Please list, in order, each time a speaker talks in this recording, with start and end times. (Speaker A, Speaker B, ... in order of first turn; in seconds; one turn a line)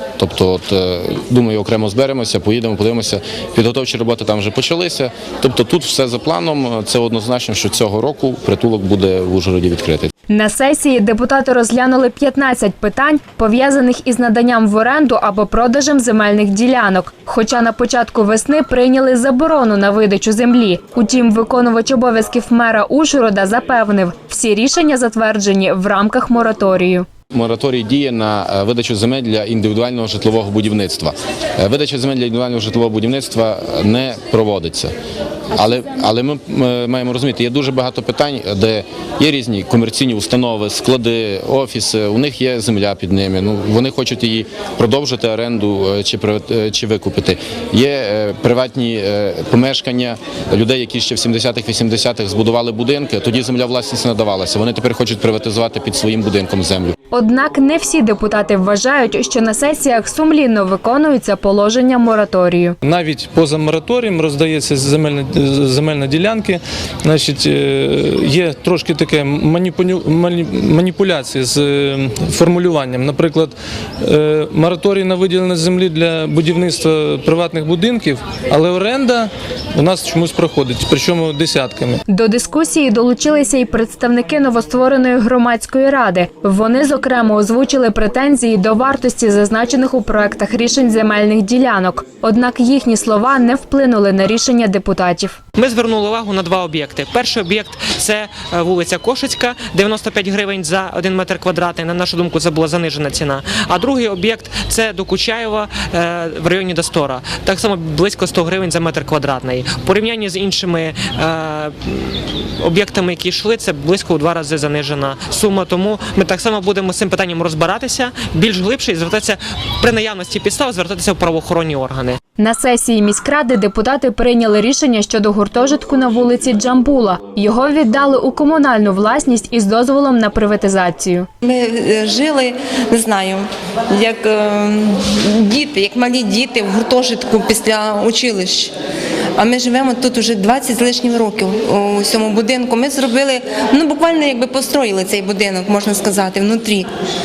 Speaker A: 0.2-10.1
Speaker B: 10.3-27.1
Speaker A: 27.3-34.9
Speaker A: 35.5-57.0
Speaker B: 57.1-62.8
Speaker C: 62.8-82.0
Speaker B: 82.1-95.4
Speaker D: 95.5-122.2
Speaker B: 122.4-131.3
Speaker E: 131.4-138.7
Speaker E: 139.4-146.9